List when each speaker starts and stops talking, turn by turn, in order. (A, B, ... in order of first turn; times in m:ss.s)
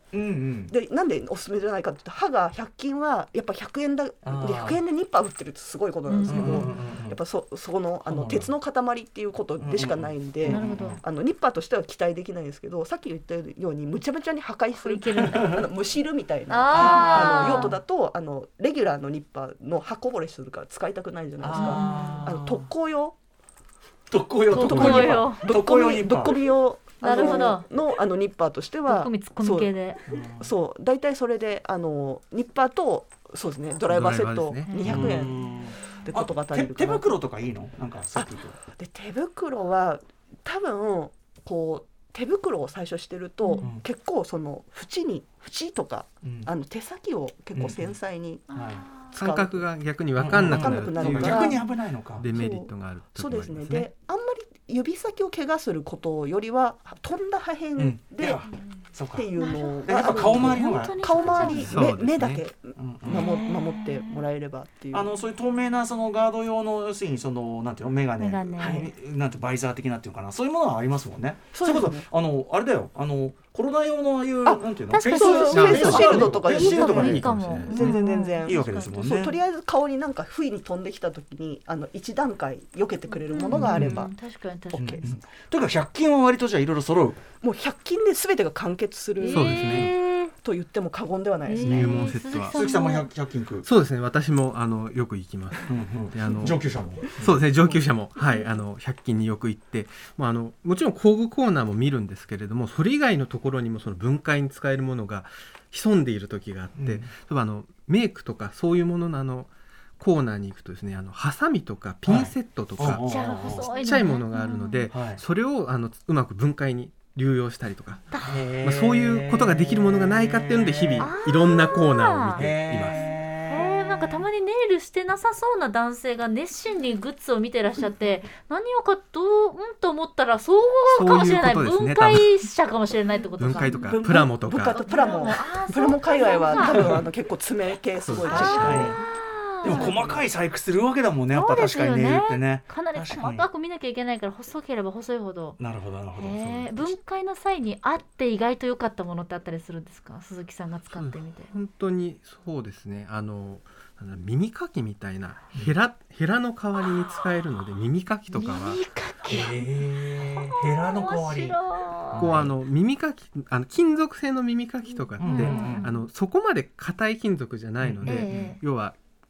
0:00.1-0:00.7 A
0:00.7-0:23.2 B
0:04.2-0:04.8 A
0:06.1-0:06.8 C
0:06.3-0:07.2 A
0:08.1-0:08.5 A
0:09.6-0:11.0 A
0:10.4-0:11.0 C
0:14.8-0:15.6 C
0:15.3-0:15.6 A
0:16.5-0:17.8 C
0:16.7-0:17.8 A
0:21.4-0:22.7 A
0:21.5-0:22.3 C
0:24.1-0:26.4 A
0:24.5-0:25.4 C
0:24.6-0:29.7 B
0:27.0-0:27.6 C
0:27.1-0:27.5 A
0:28.9-0:30.0 C
0:30.1-0:30.5 A
0:30.4-0:35.4 B
0:33.9-0:35.2 D
0:34.7-0:35.2 C
0:34.8-0:38.6 A
0:36.0-0:37.2 B
0:38.2-0:48.4 B
0:43.4-0:43.7 C
0:46.2-0:46.5 A
0:47.6-0:47.9 A
0:48.5-0:49.2 C
0:48.5-0:48.8 A
0:49.1-0:49.7 B
0:49.1-0:51.6 D
0:50.2-0:52.3 A
0:50.3-0:51.6 B
0:51.2-0:51.6 C
0:52.2-0:53.9 D
0:52.3-0:58.4 B
0:57.8-0:59.3 A
0:59.1-1:05.1 B
0:59.4-1:01.7 C
0:59.9-1:01.8 A
1:01.6-1:02.4 D
1:02.8-1:03.4 A
1:03.1-1:04.2 C
1:04.9-1:19.3 A
1:08.2-1:08.9 C
1:08.6-1:08.9 B
1:11.5-1:12.1 B
1:14.4-1:24.1 B
1:14.9-1:19.4 C
1:15.5-1:18.0 D
1:23.2-1:25.0 C
1:23.5-1:24.1 A
1:24.7-1:25.2 B
1:24.8-1:27.2 A
1:27.4-1:32.0 B
1:29.2-1:30.3 C
1:29.3-1:29.9 D
1:31.5-1:33.1 C
1:31.6-1:32.6 D
1:32.5-1:33.7 A
1:33.6-2:03.1 D
1:35.7-1:37.4 A
1:38.2-1:38.6 C
1:46.8-1:47.1 A
1:52.1-1:53.8 A
1:52.9-1:54.9 C
1:54.9-1:55.2 A
1:58.3-2:01.1 A
2:01.0-2:14.1 C
2:02.4-2:04.2 A
2:10.9-2:12.3 D
2:13.4-2:14.8 D
2:13.8-2:19.0 B
2:14.7-2:17.0 C
2:16.6-2:17.0 A
2:18.0-2:18.9 D
2:18.2-2:20.1 C
2:18.3-2:19.0 A
2:19.6-2:23.5 A
2:19.7-2:20.2 B
2:21.3-2:25.6 C
2:25.6-2:26.9 A
2:26.2-2:31.5 C
2:30.9-2:38.8 D
2:38.3-2:42.4 C
2:39.3-2:42.5 A
2:42.2-2:49.0 D
2:45.2-2:45.9 A
2:45.2-2:46.0 C
2:47.8-2:48.6 A
2:48.0-2:48.6 C